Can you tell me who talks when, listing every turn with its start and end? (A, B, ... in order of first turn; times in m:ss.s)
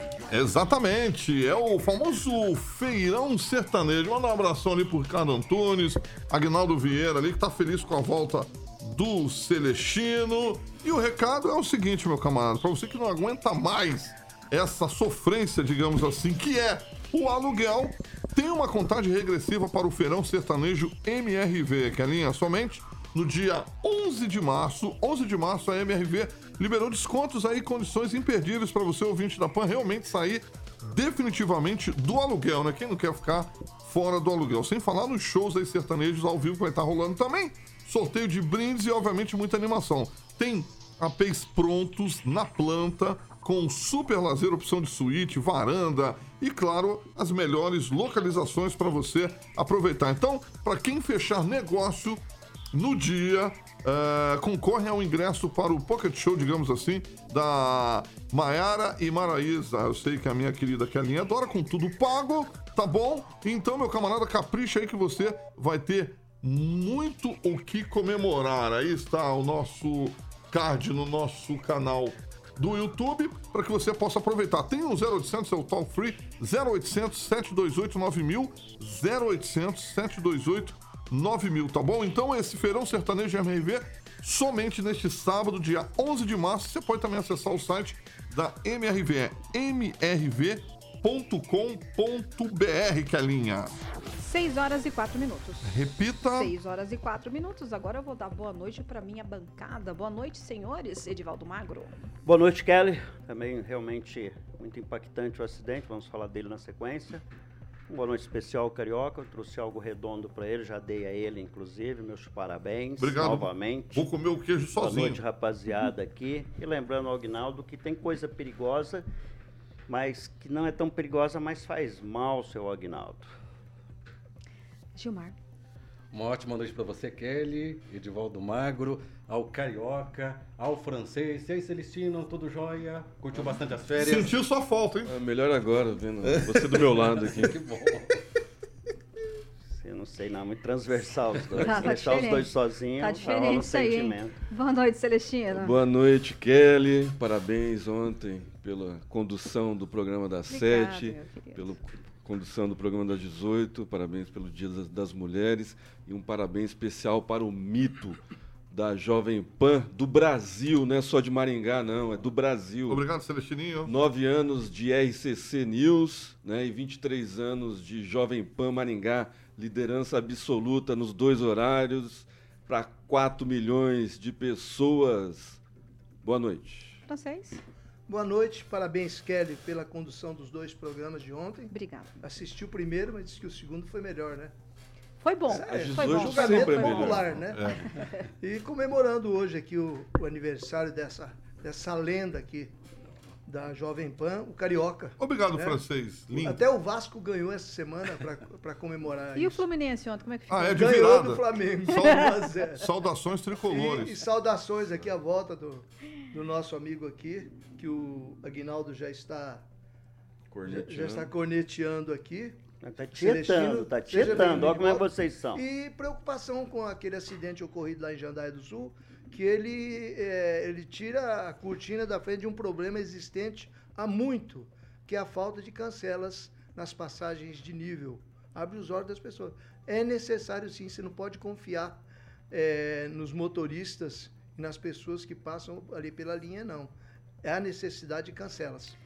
0:00.3-1:33.7 A
1:34.2-1:41.9 B
1:35.6-1:36.5 A
1:42.2-1:47.2 C
1:47.9-1:54.1 C
1:53.0-1:55.2 A
1:54.8-1:59.0 C
1:59.9-2:03.3 C
2:05.0-2:05.4 B
2:06.1-2:14.3 D
2:14.0-2:15.1 A
2:15.1-2:17.6 E
2:17.0-2:18.1 D
2:19.7-2:24.4 C
2:21.6-2:25.8 B
2:25.5-2:38.2 E
2:30.5-2:31.8 B
2:38.7-2:43.0 E
2:42.9-2:43.9 A
2:43.8-2:55.6 E
2:56.2-2:57.0 E
2:57.1-2:57.6 B
2:58.1-3:04.5 F
3:01.7-3:02.2 B
3:05.2-3:07.2 B
3:05.5-3:07.8 F
3:05.7-3:07.3 E
3:07.6-3:07.8 A
3:08.4-3:12.7 F
3:13.5-3:19.7 F
3:15.2-3:16.6 A
3:19.4-3:20.9 B
3:20.5-3:24.2 A
3:20.7-3:22.8 F
3:23.6-3:29.7 F
3:30.5-3:31.3 E
3:30.6-3:32.6 F
3:32.8-3:35.6 C
3:33.1-3:56.9 F
3:34.3-3:34.6 E
3:57.4-3:59.0 F